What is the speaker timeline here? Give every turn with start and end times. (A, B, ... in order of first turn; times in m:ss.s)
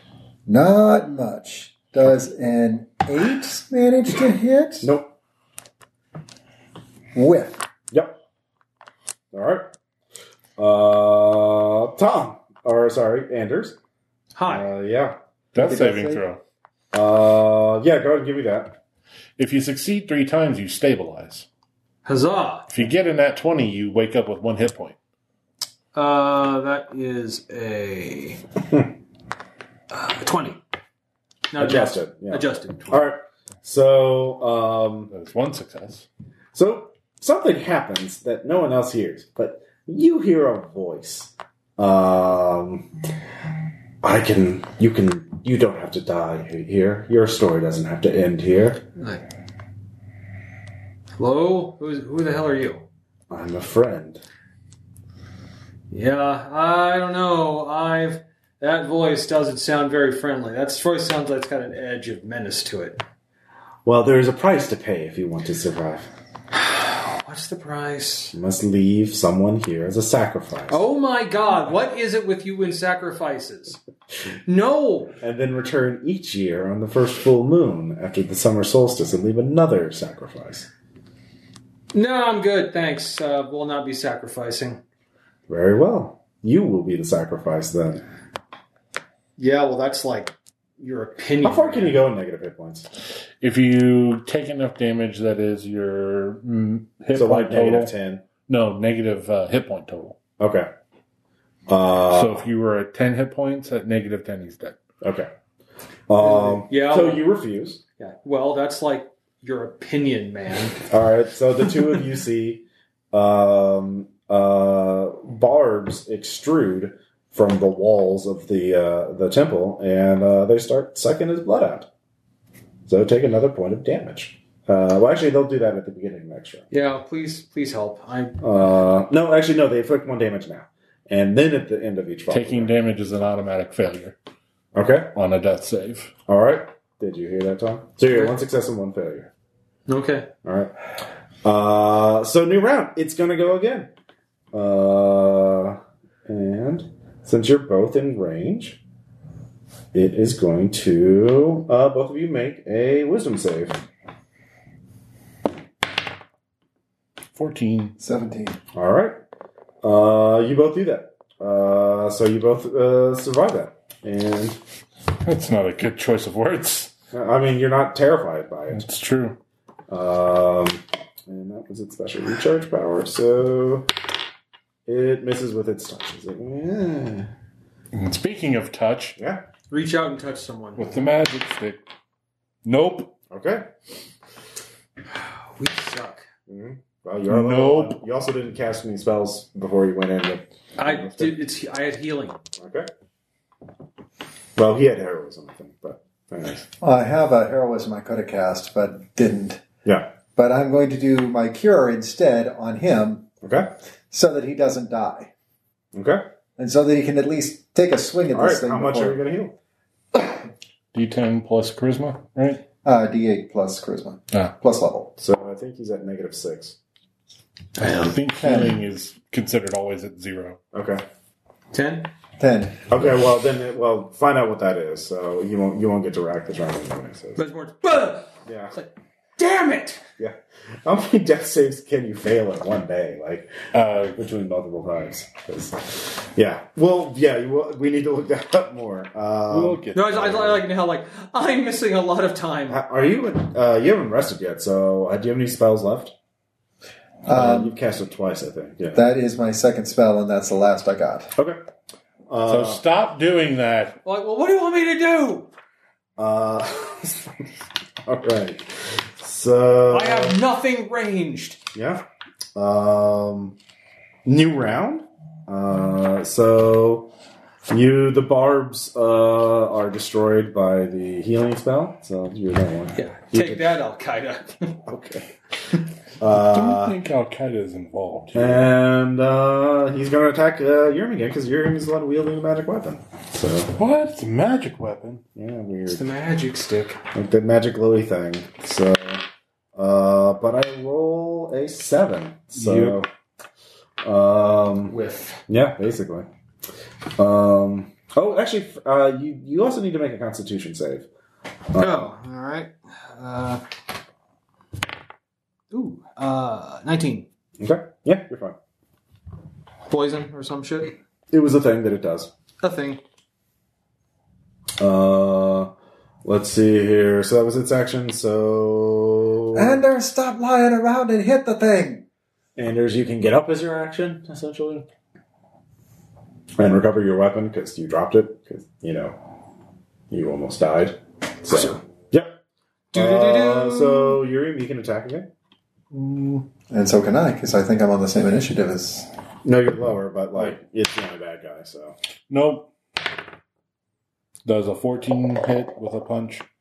0:00.5-0:04.9 A
0:04.8-0:05.1 B
0:07.1-0:07.6 A
0:07.9-0:08.2 B
0:09.3-0:09.7 B
0:10.6-0:13.8 B
0:14.4-0:14.7 C
0:14.5-0:15.2 B
0:15.5-0:16.4 D
0:15.6-0:16.2 A
0:16.9-0:18.8 B
0:19.4-0:21.5 D
0:22.0-0:22.7 C
0:22.7-0:25.0 D
0:25.9-0:28.4 C
0:29.9-0:30.6 C
0:31.5-0:33.1 C
0:31.6-0:35.1 B
0:35.1-0:36.1 D
0:36.5-0:42.9 B
0:44.0-0:48.8 B
0:49.0-0:49.2 C
0:51.2-0:52.9 C
0:53.3-0:54.2 B
0:55.9-1:03.0 C
1:03.9-1:06.1 B
1:06.5-1:08.3 C
1:08.3-1:10.8 B
1:10.7-1:13.8 C
1:14.5-1:15.2 C
1:15.2-1:20.7 B
1:21.9-1:24.8 C
1:25.5-1:28.0 B
1:29.4-1:32.0 C
1:31.4-1:32.9 B
1:33.4-1:37.9 D
1:37.1-1:38.2 B
1:38.5-1:40.2 D
1:40.4-1:40.7 B
1:41.7-1:42.4 B
1:42.1-1:44.8 D
1:45.0-1:45.3 B
1:46.1-1:47.8 B
1:46.2-1:47.3 C
1:48.0-1:50.8 C
1:50.9-2:01.9 B
2:02.9-2:06.7 B
2:06.7-2:08.4 C
2:08.4-2:12.7 B
2:12.3-2:14.2 D
2:14.7-2:15.1 B
2:15.1-2:16.1 D
2:16.3-2:19.3 B
2:18.1-2:18.3 C
2:19.9-2:20.3 C
2:20.4-2:20.7 B
2:21.4-2:23.9 B
2:24.5-2:28.8 B
2:29.9-2:33.8 B
2:37.4-2:38.0 D
2:38.0-2:38.6 A
2:38.7-2:39.2 B
2:39.8-2:44.6 B
2:45.2-2:46.9 D
2:47.1-2:48.9 B
2:48.7-2:49.4 D
2:49.9-2:53.9 B
2:54.9-2:57.3 B
2:57.9-2:59.2 D
2:59.2-2:59.4 B
2:59.7-3:00.9 C
3:00.8-3:01.8 D
3:02.6-3:03.1 D
3:03.3-3:03.7 B
3:05.5-3:06.2 C
3:06.5-3:11.4 B
3:07.3-3:08.0 D
3:10.8-3:12.4 C
3:12.6-3:12.9 B
3:14.6-3:16.7 B
3:16.8-3:19.6 A
3:19.8-3:20.1 B
3:20.4-3:23.2 A
3:23.4-3:23.7 B
3:24.1-3:25.3 A
3:25.9-3:26.2 B
3:26.6-3:29.2 A
3:28.3-3:29.6 B
3:30.9-3:32.6 D
3:32.8-3:35.1 A
3:35.2-3:36.8 B
3:37.8-3:40.6 D
3:38.4-3:38.8 A
3:40.7-3:41.0 B
3:41.7-3:42.1 C
3:42.4-3:42.9 A
3:42.9-3:47.4 B
3:47.4-3:50.0 C
3:48.5-3:48.8 B
3:50.2-3:59.8 B
3:53.7-3:54.2 D
3:59.5-4:00.6 D
3:59.9-4:02.8 C
4:02.7-4:06.1 B
4:07.3-4:07.8 A
4:07.3-4:09.1 B
4:08.9-4:11.3 A
4:12.3-4:12.8 B
4:12.5-4:14.0 D
4:14.0-4:15.5 C
4:16.2-4:17.3 B
4:18.1-4:20.4 B
4:19.9-4:21.6 C
4:21.7-4:22.0 B
4:22.6-4:23.6 B
4:24.3-4:27.1 B
4:27.7-4:33.7 B
4:33.0-4:34.8 C
4:34.9-4:35.3 B
4:36.2-4:37.0 B
4:36.3-4:38.8 D
4:38.3-4:43.8 B
4:43.8-4:45.2 D
4:45.4-4:46.0 B
4:45.9-4:47.0 C
4:47.1-4:49.2 B
4:49.8-4:53.1 B
4:52.5-4:53.0 D
4:54.0-4:55.0 B
4:54.9-4:55.4 C
4:55.5-4:56.3 B
4:57.2-5:01.1 B
5:01.7-5:02.1 B
5:01.8-5:03.6 C
5:05.7-5:07.3 C
5:07.6-5:08.6 B
5:09.9-5:11.0 C
5:11.3-5:12.3 B
5:12.6-5:13.0 C
5:14.8-5:15.7 B
5:16.2-5:19.8 B
5:19.6-5:22.0 A
5:22.6-5:24.9 B
5:26.6-5:29.2 B
5:30.1-5:32.4 B
5:32.9-5:34.2 C
5:32.9-5:35.3 B
5:35.9-5:39.1 A
5:39.4-5:42.0 B
5:42.3-5:42.7 D
5:44.4-5:46.4 D